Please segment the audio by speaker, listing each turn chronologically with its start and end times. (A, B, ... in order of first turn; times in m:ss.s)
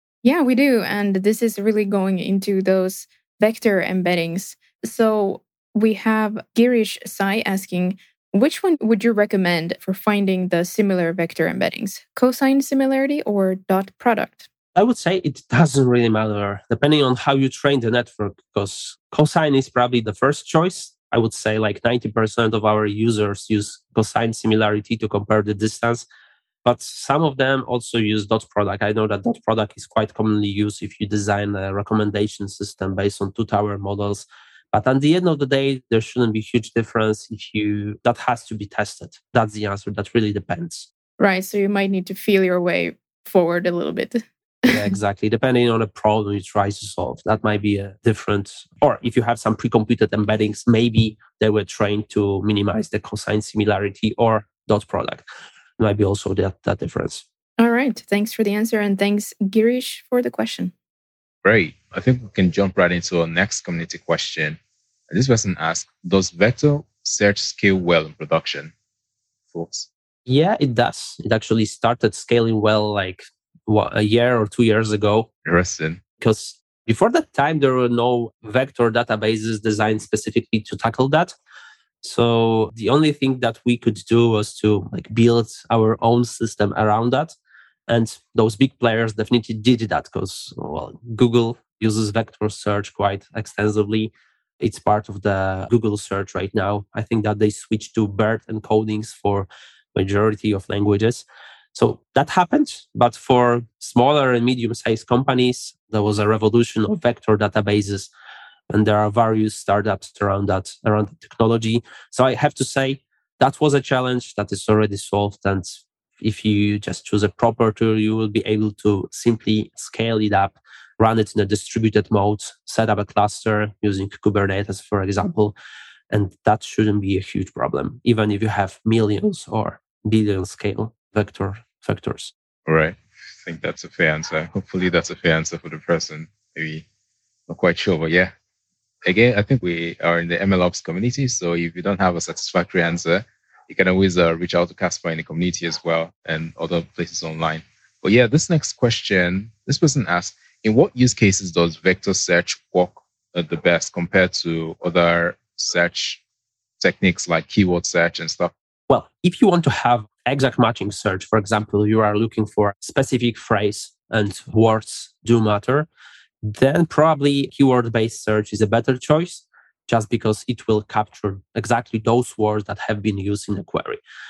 0:00.2-0:14.5 A
0:14.8-0:26.1 B
0:26.6-0:40.9 B
0:41.2-0:44.9 A
0:44.7-0:55.3 B
0:55.8-0:57.2 B
0:57.6-1:00.7 A
1:01.4-1:04.6 C
1:05.1-1:08.7 C
1:09.5-1:09.9 C
1:10.3-1:15.3 B
1:15.4-1:16.0 C
1:16.2-1:21.3 B
1:22.0-1:27.3 B
1:27.9-1:48.1 B
1:48.7-2:05.6 B
2:06.1-2:12.3 B
2:12.7-2:16.9 C
2:17.5-2:18.3 C
2:19.0-2:36.2 C
2:36.8-2:38.5 C
2:38.9-2:45.9 B
2:46.4-2:54.0 B